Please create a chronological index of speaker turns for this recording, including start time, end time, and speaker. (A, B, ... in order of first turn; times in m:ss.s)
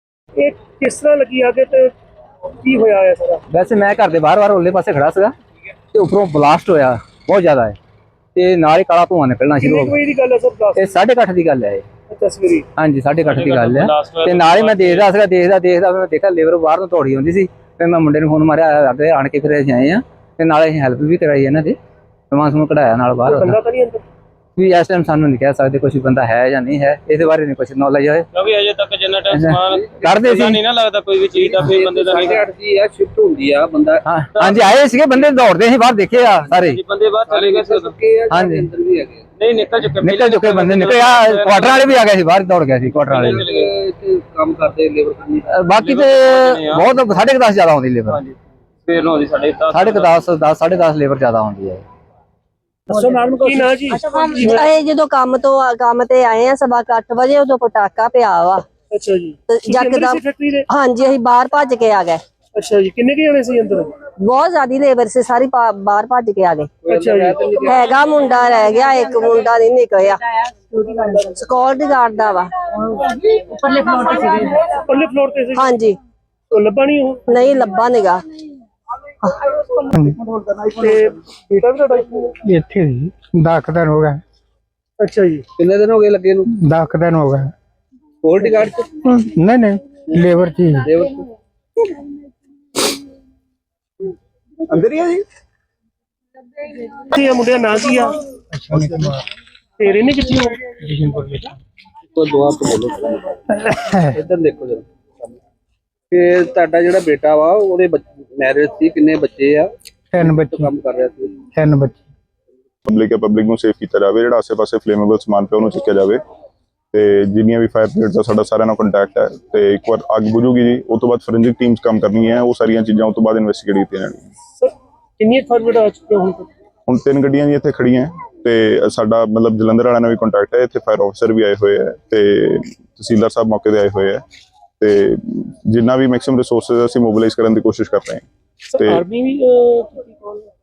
0:00.4-0:01.9 A
0:02.6-0:03.4 A
0:03.5-0:05.3 B
0:05.9-0:07.8 B
0:08.4-0:10.0 B
0:09.6-0:11.0 A
0:10.8-0:11.8 B
0:12.1-0:12.6 A
0:12.8-0:21.8 B
0:13.3-0:15.1 C
0:22.3-0:23.6 B
0:23.2-0:24.0 A
0:24.6-0:28.3 B
0:28.3-0:32.4 C
0:29.3-0:30.6 B
0:29.7-0:30.6 D
0:31.3-0:34.1 D
0:34.1-0:36.8 B
0:34.4-0:34.7 C
0:36.6-0:37.9 C
0:37.2-0:39.3 D
0:38.3-0:38.7 B
0:39.4-0:41.9 C
0:40.0-0:43.5 B
0:43.0-0:45.5 D
0:43.0-0:43.6 C
0:45.5-0:48.2 B
0:45.7-0:46.9 C
0:48.9-0:50.2 C
0:49.7-0:51.8 B
0:52.9-0:54.6 A
0:54.4-0:58.6 E
0:58.9-1:00.6 A
0:59.5-1:02.2 E
1:02.6-1:03.9 A
1:04.2-1:06.7 E
1:06.8-1:08.4 D
1:06.9-1:07.6 A
1:07.7-1:10.2 E
1:11.2-1:12.5 E
1:13.8-1:15.6 A
1:15.6-1:16.0 E
1:16.5-1:17.2 A
1:17.3-1:18.2 E
1:19.9-1:20.2 F
1:20.8-1:22.3 A
1:22.4-1:24.2 F
1:25.0-1:25.4 A
1:25.6-1:26.5 D
1:26.5-1:27.5 F
1:28.2-1:28.9 D
1:29.0-1:30.9 F
1:30.8-1:31.3 D
1:34.8-1:35.2 B
1:37.0-1:38.2 A
1:38.5-1:39.2 F
1:39.8-1:40.6 A
1:40.7-1:41.5 F
1:42.1-1:43.4 D
1:43.7-1:44.2 F
1:44.1-1:45.4 D
1:46.1-1:51.4 D
1:50.1-1:50.7 F
1:51.5-1:52.1 F
1:52.9-1:56.2 G
1:56.9-2:04.3 G
2:04.6-2:06.5 A
2:06.9-2:14.2 G
2:14.8-2:18.3 G
2:18.7-2:20.5 A
2:18.8-2:19.0 G